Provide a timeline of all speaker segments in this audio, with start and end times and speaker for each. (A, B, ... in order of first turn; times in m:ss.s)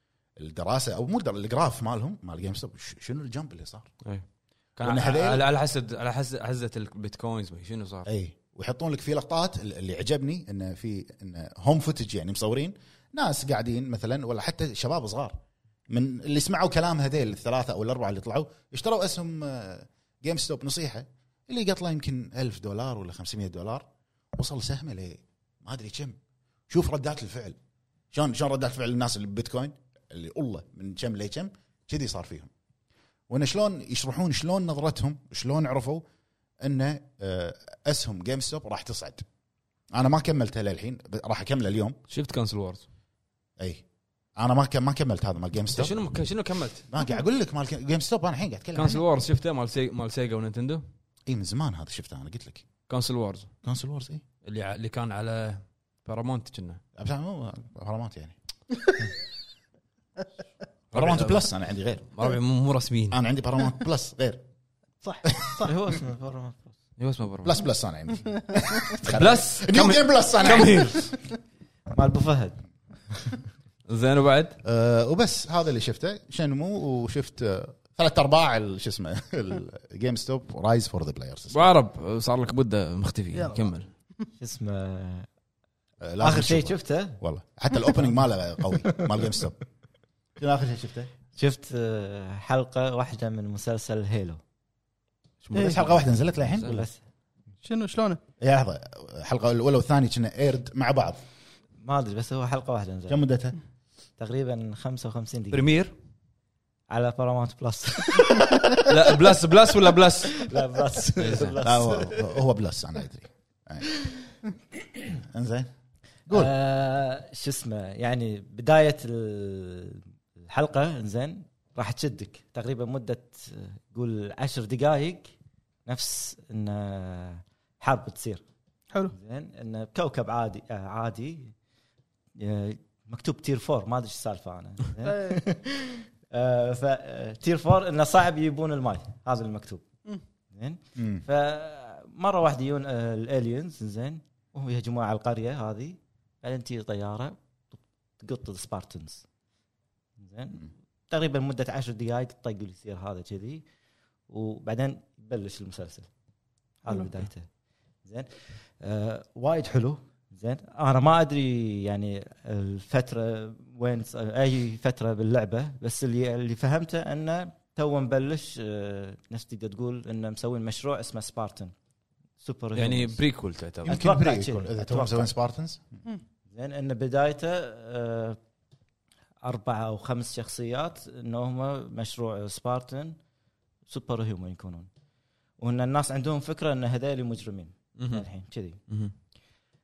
0:00.4-0:03.9 A
0:04.8-0:08.1 B
0:04.8-0:05.4 A
0:08.0-0:15.4 A
0:15.9-0:26.2 A
0:26.7-0:27.6 A
0:28.1-0:32.5 A
0:33.3-0:36.0 A
0:36.6-0:39.2 A
0:39.9-0:42.0 A
0:42.1-0:42.8 B
0:44.4-0:46.0 A
0:45.7-0:46.9 B
0:46.9-0:49.0 A
0:48.7-0:50.8 B
0:51.3-0:52.6 A
0:52.9-0:53.5 B
0:53.6-0:54.2 A
0:54.4-0:56.8 B
0:57.0-0:58.4 A
1:00.9-1:01.5 B
1:00.9-1:02.1 A
1:02.1-1:03.2 B
1:03.1-1:04.4 A
1:05.0-1:05.7 C
1:05.2-1:05.7 A
1:05.6-1:06.7 D
1:07.0-1:07.6 B
1:07.4-1:11.0 A
1:08.5-1:09.0 C
1:09.0-1:11.1 B
1:11.9-1:12.6 D
1:13.9-1:14.6 B
1:14.6-1:21.7 A
1:21.5-1:23.9 B
1:23.3-1:23.7 C
1:24.4-1:25.3 D
1:26.0-1:29.6 A
1:26.2-1:27.2 D
1:30.4-1:31.1 A
1:31.4-1:34.4 D
1:35.4-1:36.8 B
1:35.5-1:35.8 C
1:35.5-1:36.8 A
1:36.6-1:37.0 D
1:37.6-1:38.2 C
1:38.4-1:41.2 A
1:41.8-1:43.2 D
1:43.1-1:43.6 A
1:44.2-1:45.7 D
1:45.5-1:45.9 B
1:46.9-1:49.3 D
1:48.8-1:50.5 B
1:50.4-1:52.3 D
1:51.2-1:51.6 B
1:51.6-1:54.0 A
1:55.1-1:55.7 A
1:56.3-2:05.3 D
2:05.8-2:08.4 D
2:09.1-2:11.5 D
2:12.4-2:19.8 D
2:15.0-2:15.4 C
2:20.5-2:29.2 D
2:21.0-2:21.2 A
2:30.2-2:33.6 D
2:34.3-2:36.1 D
2:36.8-2:37.5 D
2:38.0-2:51.7 D
2:52.4-2:53.2 D
2:52.7-2:54.0 B
2:53.8-2:55.3 D
2:53.8-2:55.8 A
2:56.5-2:58.4 D
2:59.4-3:03.2 D
3:03.9-3:04.9 D
3:05.6-3:08.8 D
3:08.0-3:08.2 B